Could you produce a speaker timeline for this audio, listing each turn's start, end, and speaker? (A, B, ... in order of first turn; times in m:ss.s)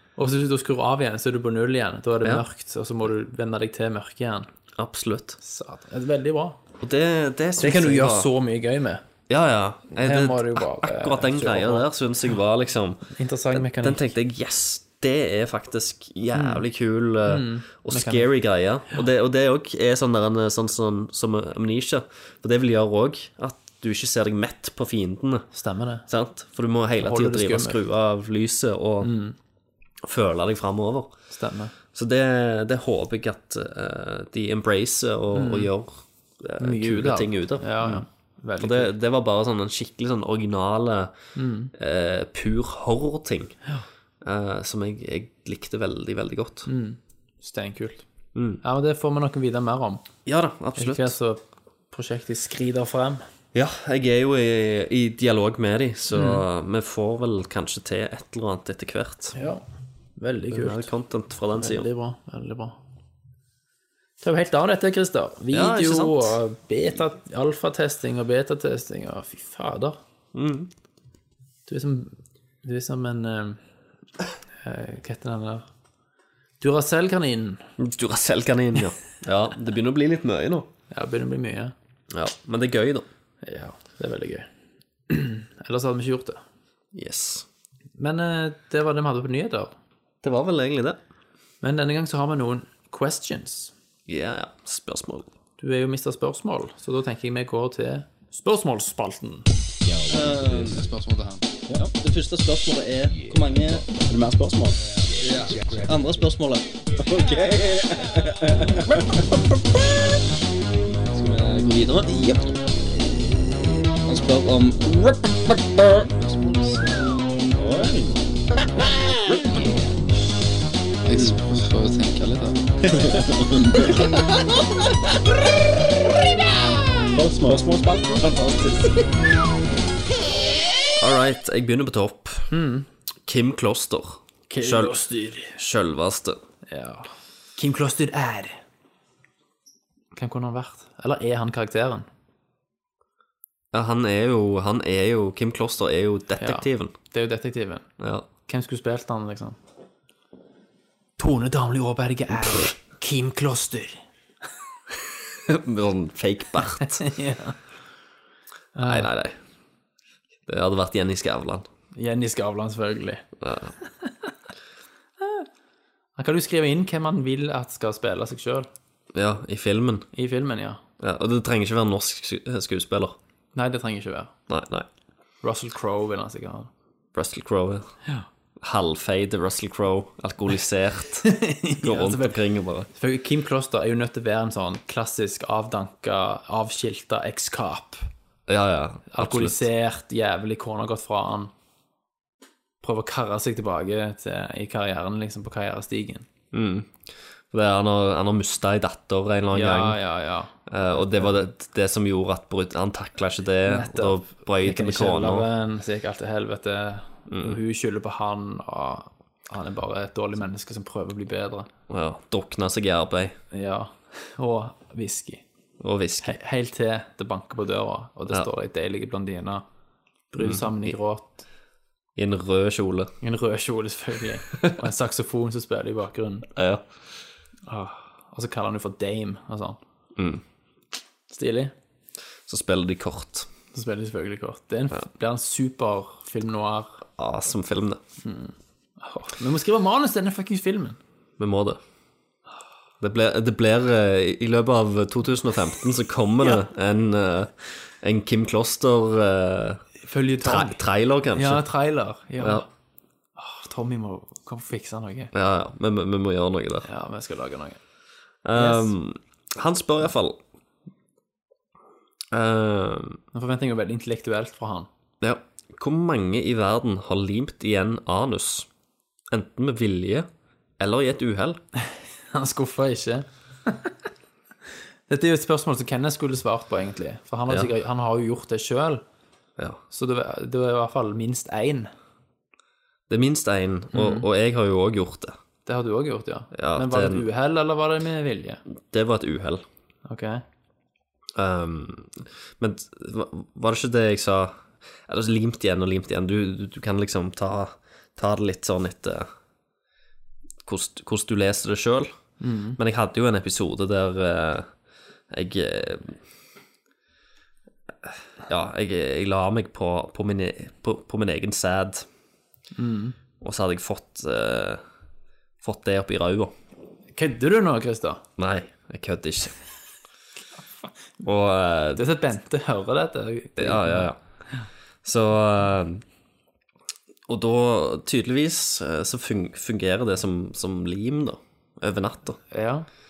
0:00.2-0:04.5 A
0:04.8-0:05.4 B
0:05.4-0:06.6 A
0:06.8-0:08.3 B
0:07.6-0:09.0 A
0:09.3-0:25.5 B
0:09.9-0:11.9 A
0:13.1-0:14.1 A
0:16.3-0:16.6 A
0:17.3-0:18.3 A
0:25.5-0:26.0 A
0:26.1-0:29.1 B
0:27.0-0:27.8 A
0:29.0-0:29.4 A
0:30.0-0:31.1 B
0:31.3-0:31.7 A
0:31.9-0:38.0 B
0:35.3-0:35.7 A
0:36.6-0:38.9 A
0:38.6-0:41.1 B
0:41.3-0:41.7 A
0:41.7-0:43.6 B
0:44.2-0:46.7 B
0:46.6-0:48.0 A
0:48.3-0:48.6 B
0:48.6-0:50.0 A
0:50.2-0:51.1 B
0:50.8-0:53.2 A
0:53.5-0:59.4 B
0:56.1-0:56.4 A
0:59.3-0:59.6 A
1:00.2-1:00.9 A
1:00.5-1:01.9 B
1:01.6-1:02.8 A
1:04.2-1:10.0 A
1:05.5-1:06.4 B
1:10.3-1:10.7 B
1:11.7-1:13.6 A
1:14.6-1:15.7 A
1:16.6-1:17.6 A
1:17.8-1:20.7 B
1:20.9-1:21.7 A
1:22.1-1:23.1 B
1:23.4-1:24.5 A
1:25.1-1:26.4 A
1:26.9-1:27.4 B
1:28.0-1:29.7 A
1:30.2-1:31.0 B
1:31.6-1:33.7 A
1:34.1-1:35.3 B
1:35.6-1:39.5 A
1:40.0-1:41.0 C
1:41.7-1:50.2 C
1:51.0-1:59.7 C
2:01.0-2:01.5 C
2:02.8-2:04.2 C
2:07.1-2:09.0 C
2:11.0-2:12.5 B
2:12.5-2:12.9 A
2:13.2-2:15.0 B
2:14.5-2:15.6 A
2:15.6-2:16.4 B
2:16.7-2:18.6 A
2:20.1-2:22.1 A
2:23.7-2:26.9 B
2:26.4-2:27.9 A
2:28.0-2:28.2 B
2:28.4-2:29.6 A
2:31.2-2:34.0 A
2:35.4-2:37.0 B
2:36.9-2:37.6 A
2:38.7-2:39.1 A
2:38.8-2:39.4 B
2:40.4-2:41.7 B
2:42.0-2:43.2 A
2:43.4-2:43.7 B
2:44.0-2:44.3 A
2:45.2-2:45.5 A
2:46.2-2:48.7 A
2:49.1-2:50.1 B
2:50.1-2:50.8 A
2:51.0-2:53.2 B
2:53.5-2:54.3 A
2:54.5-2:54.8 B
2:55.4-2:56.7 A
2:57.1-2:57.9 B
2:58.6-3:02.9 B
3:01.2-3:02.4 A
3:02.9-3:08.1 A
3:08.5-3:09.6 B
3:09.1-3:11.5 A
3:12.8-3:16.3 A
3:16.5-3:20.0 B
3:19.5-3:21.4 A
3:20.7-3:25.5 B
3:23.6-3:31.7 A
3:27.3-3:27.6 B
3:31.9-3:33.4 B
3:33.5-3:35.4 A
3:35.8-3:36.4 B
3:36.2-3:39.6 A
3:40.3-3:41.4 A
3:40.4-3:40.9 B
3:42.2-3:43.1 B
3:43.2-3:46.5 A
3:46.6-3:46.8 B
3:47.7-3:49.8 A
3:50.2-3:50.4 B
3:51.3-3:51.7 A
3:52.5-3:53.5 B
3:53.7-3:57.0 A
3:57.2-3:58.0 B
3:58.2-4:01.0 A
4:01.4-4:01.8 B
4:03.0-4:09.8 B
4:10.0-4:10.8 A
4:10.4-4:11.6 B
4:11.3-4:12.7 A
4:12.4-4:12.6 B
4:13.4-4:15.3 A
4:15.3-4:16.9 B
4:16.8-4:17.8 A
4:18.4-4:20.4 B
4:18.5-4:18.9 A
4:22.3-4:23.2 B
4:23.3-4:24.9 A
4:25.2-4:28.7 B
4:29.3-4:31.6 B
4:31.8-4:33.9 A
4:35.1-4:39.0 A
4:39.9-4:41.9 A
4:43.1-4:45.4 B
4:43.9-4:44.3 A
4:45.6-4:48.6 A
4:46.5-4:47.2 B
4:48.9-4:49.6 B
4:50.0-4:50.4 A
4:51.4-4:59.3 B
5:00.6-5:02.1 B
5:02.4-5:02.8 A
5:02.8-5:04.7 B
5:05.3-5:06.2 B
5:08.0-5:12.0 B
5:12.7-5:13.2 A
5:13.4-5:14.8 B
5:15.6-5:16.5 B
5:17.1-5:18.2 A
5:18.4-5:19.5 B
5:21.2-5:22.0 B
5:21.9-5:24.1 A
5:23.6-5:24.2 B
5:25.0-5:26.0 B
5:27.3-5:32.4 B
5:32.5-5:32.9 A